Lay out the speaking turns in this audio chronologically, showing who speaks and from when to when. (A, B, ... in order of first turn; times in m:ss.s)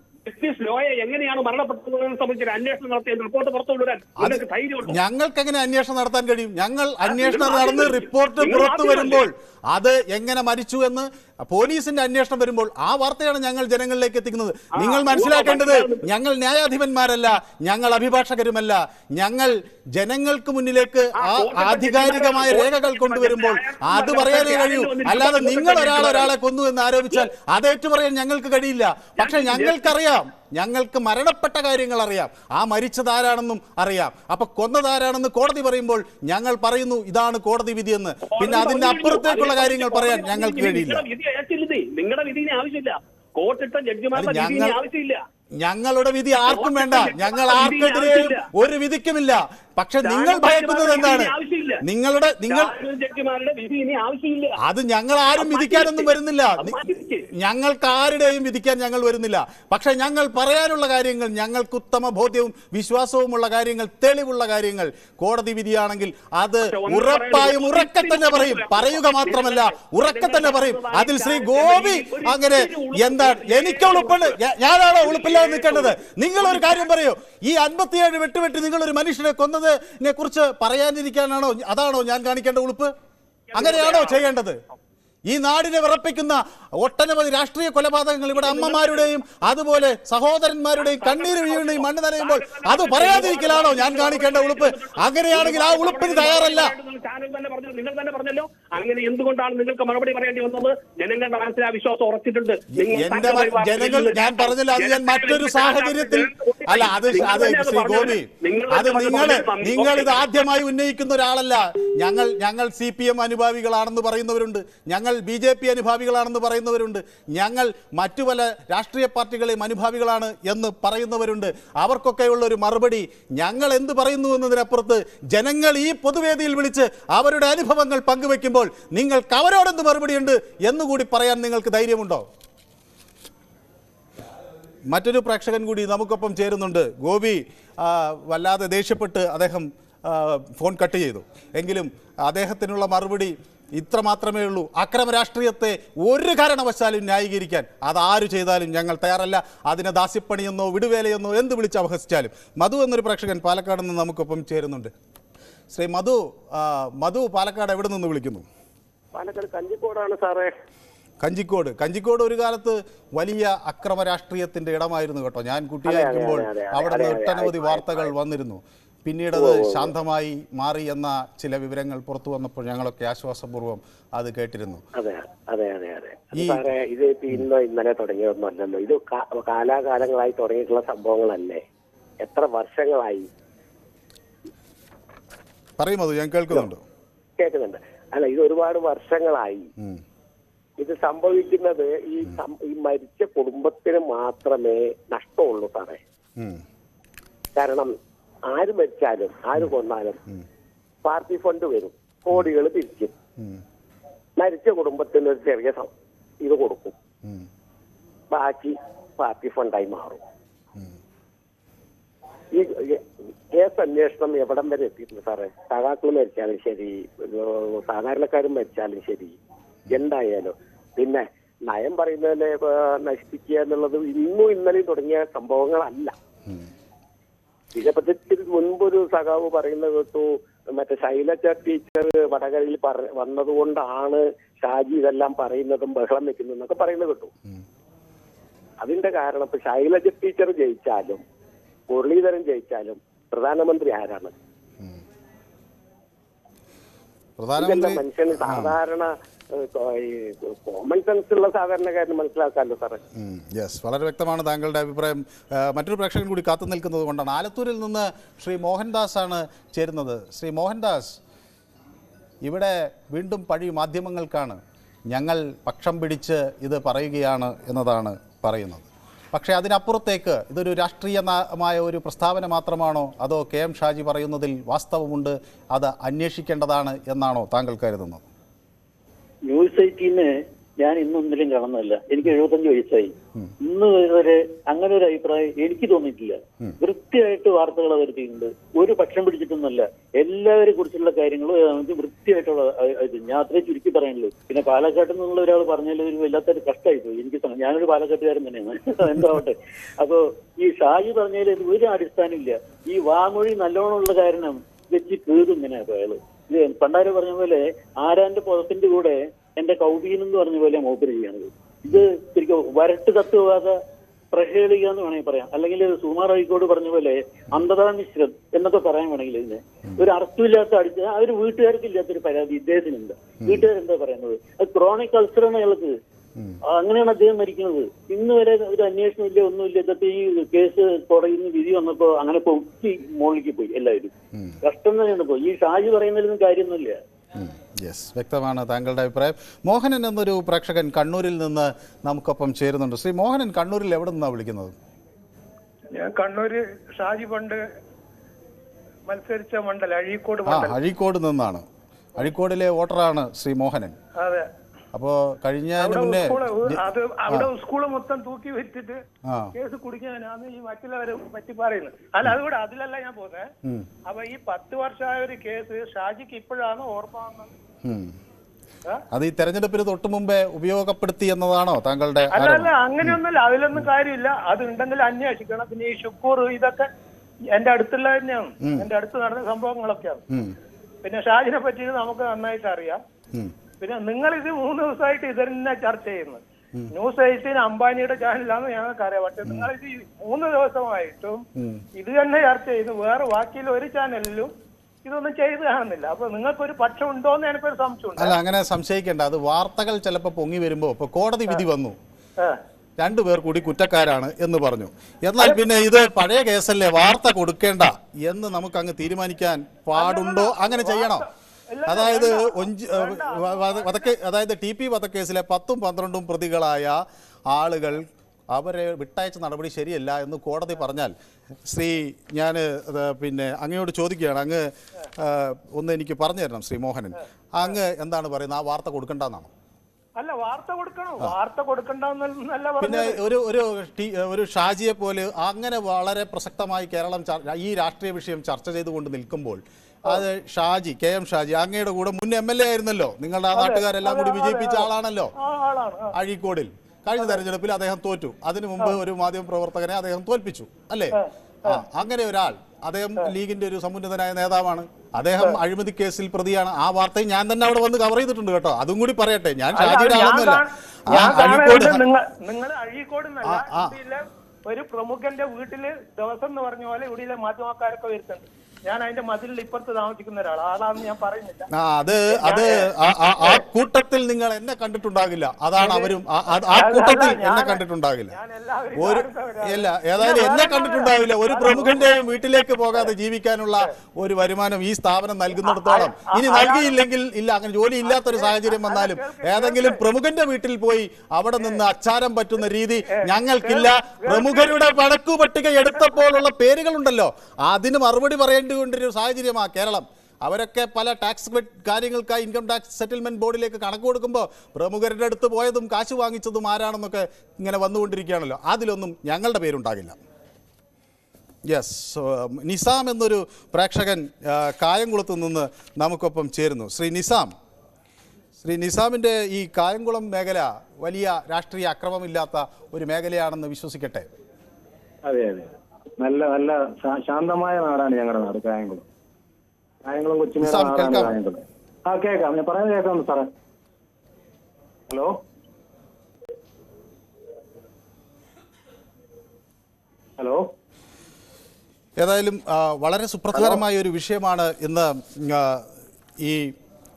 0:00.2-0:05.0 A
0:04.2-0:41.0 B
0:07.0-0:09.3 A
0:14.8-0:16.1 A
0:21.2-0:26.3 A
0:29.2-0:29.9 A
0:38.3-0:45.2 A
0:44.1-0:44.8 B
0:45.6-0:51.3 B
0:46.5-0:48.5 A
0:50.0-0:51.8 A
0:51.8-0:52.7 B
0:52.5-0:54.6 A
0:54.6-1:22.9 B
0:55.4-0:57.3 A
1:06.6-1:14.4 A
1:15.0-1:16.8 A
1:23.5-1:24.3 A
1:23.5-1:24.6 B
1:25.3-1:36.7 B
1:28.4-1:29.1 A
1:30.8-1:50.2 A
1:42.7-2:12.3 B
2:14.9-2:34.9 B
2:35.7-2:38.5 B
2:39.1-2:40.5 C
2:41.2-2:54.8 B
2:45.8-2:48.1 C
2:49.3-2:49.9 C
2:55.0-3:01.6 C
2:56.3-2:56.7 B
3:02.2-3:03.3 C
3:05.8-3:06.8 B
3:07.4-3:09.7 C
3:10.8-3:16.0 C
3:16.4-3:16.6 B
3:17.6-3:17.9 C
3:18.5-3:20.2 C
3:21.0-3:23.1 C
3:24.4-3:25.9 C
3:26.4-3:27.0 C
3:28.3-3:30.2 C
3:32.5-3:39.4 C
3:39.9-3:46.1 C
3:47.8-3:57.3 C
3:58.8-4:01.2 C
4:01.9-4:04.3 C
4:07.4-4:08.7 B
4:07.6-4:13.0 C
4:13.2-4:21.2 B
4:22.4-4:38.2 B
4:39.5-5:13.8 D
5:14.3-5:26.0 D
5:23.4-5:23.7 B
5:26.7-5:37.0 D
5:37.4-5:44.8 B
5:46.0-5:47.6 E
5:49.1-5:50.8 E
5:50.4-5:51.7 B
5:52.2-5:54.0 B
5:54.2-5:54.5 E
5:54.9-5:57.5 B
5:55.8-5:59.0 E
5:59.2-5:59.5 B
5:59.6-6:03.5 E
6:04.1-6:07.5 E
6:07.8-6:08.2 B
6:09.1-6:13.2 B
6:12.3-6:16.9 E
6:17.5-6:20.2 E
6:18.6-6:18.9 B
6:20.3-6:20.6 B
6:21.0-6:23.0 E
6:23.8-6:31.4 E
6:31.6-6:31.8 B
6:32.0-6:34.5 E
6:35.0-6:38.4 E
6:38.2-6:42.0 B
6:43.0-6:51.3 B
6:45.4-6:45.7 E
6:50.0-6:54.1 E
6:51.9-7:01.2 B
7:01.7-7:09.5 B
7:10.2-7:13.2 E
7:12.8-7:25.3 B
7:23.5-7:24.9 E
7:25.4-7:26.2 E
7:26.1-7:42.1 B
7:27.2-7:27.4 E
7:31.2-7:31.8 E
7:39.7-7:52.9 E
7:43.4-7:44.0 B
7:51.7-7:58.4 B
7:55.8-7:56.1 E
7:56.7-8:02.2 E
7:59.0-8:30.2 B
8:05.6-8:07.0 E
8:08.0-8:10.0 E
8:13.1-8:14.9 E
8:31.6-8:37.5 B
8:38.6-8:44.3 B
8:45.2-8:45.7 F
8:46.2-8:49.0 F
8:50.0-8:53.5 F
8:50.6-8:51.4 B
8:55.1-8:55.4 F
9:00.4-9:00.7 F
9:02.2-9:05.9 B
9:03.5-9:03.8 F
9:06.4-9:06.8 B